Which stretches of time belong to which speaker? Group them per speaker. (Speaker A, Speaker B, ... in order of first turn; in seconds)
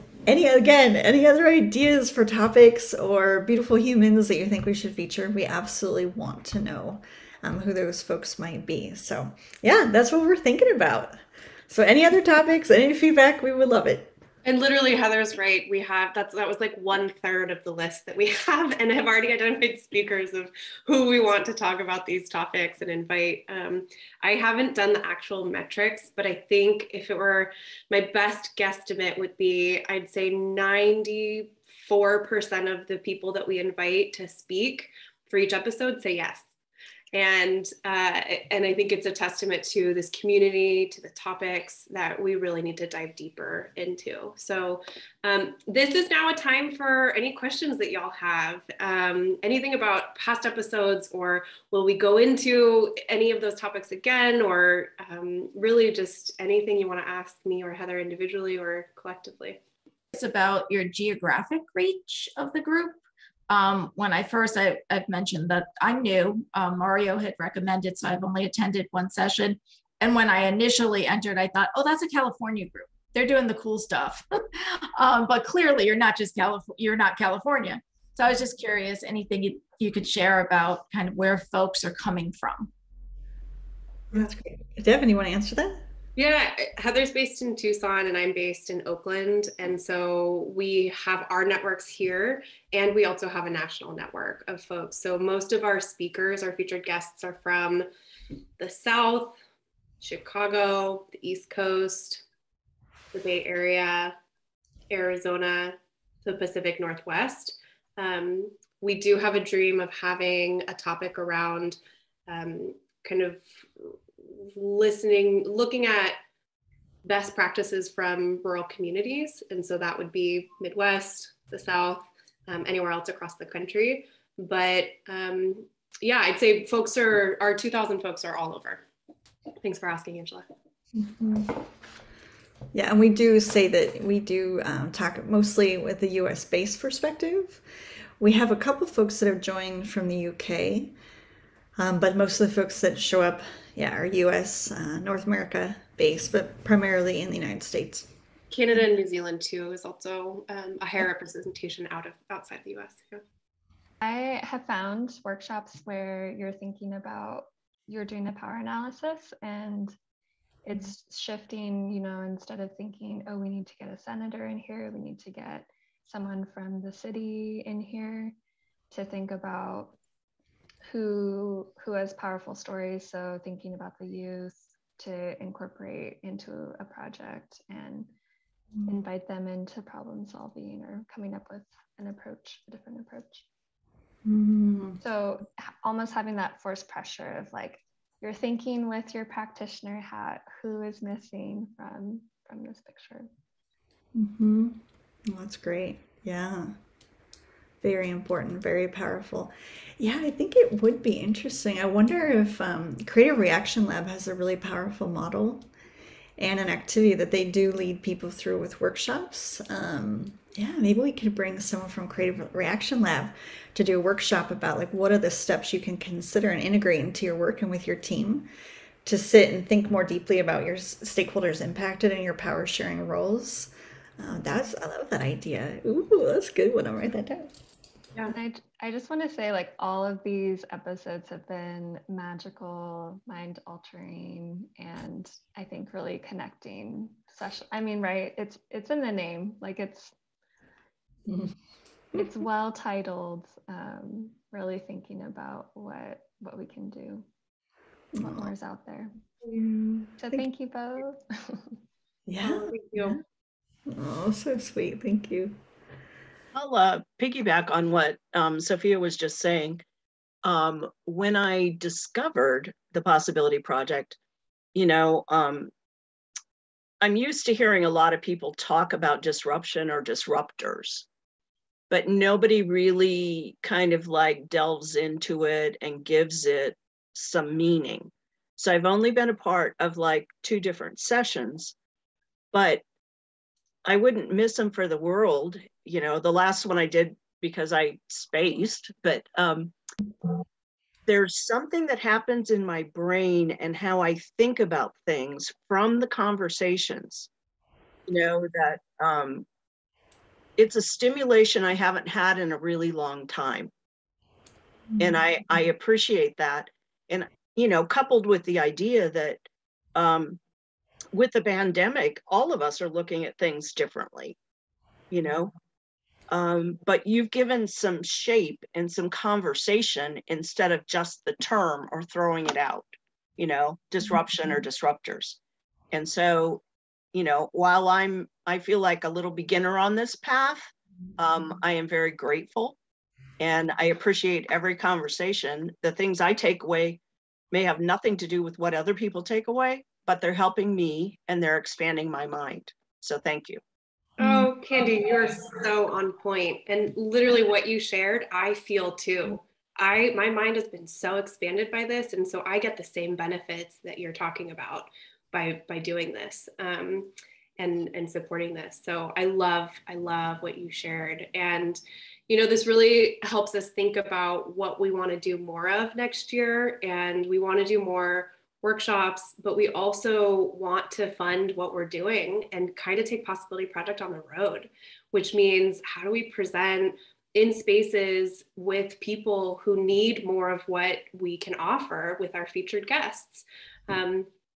Speaker A: 0.2-14.1, 84.1-85.8, 130.9-131.6, 132.7-137.6, 138.2-140.9, 141.8-148.1, 178.8-179.0, 184.2-185.0, 194.1-196.7, 197.8-205.6, 206.4-218.5, 219.0-227.5, 241.3-241.5, 248.1-248.5, 249.4-250.4, 252.3-253.2, 253.9-255.6
Speaker B: 14.4-36.5, 37.1-59.6, 86.2-97.9, 98.6-99.4, 100.0-102.2, 103.1-104.1, 104.9-116.2, 117.0-128.8, 129.6-130.4, 148.5-153.2, 252.4-253.2, 344.2-384.3
Speaker C: 60.1-74.2, 74.9-82.7
Speaker D: 154.0-159.9, 160.6-168.3, 168.9-169.9, 170.8-178.1, 178.9-183.4, 185.0-193.3, 228.3-240.1, 242.2-247.2, 248.2-249.1, 250.2-251.7
Speaker E: 256.5-259.8, 260.4-264.2, 264.7-265.7, 267.0-271.1, 271.9-281.7, 282.5-282.8, 283.8-289.7, 291.1-297.3, 298.1-299.4, 300.6-303.7, 305.0-310.4, 311.1-314.4, 315.1-315.5, 316.3-325.4, 325.9-326.6, 327.1-332.8, 333.4-337.0, 337.5-343.6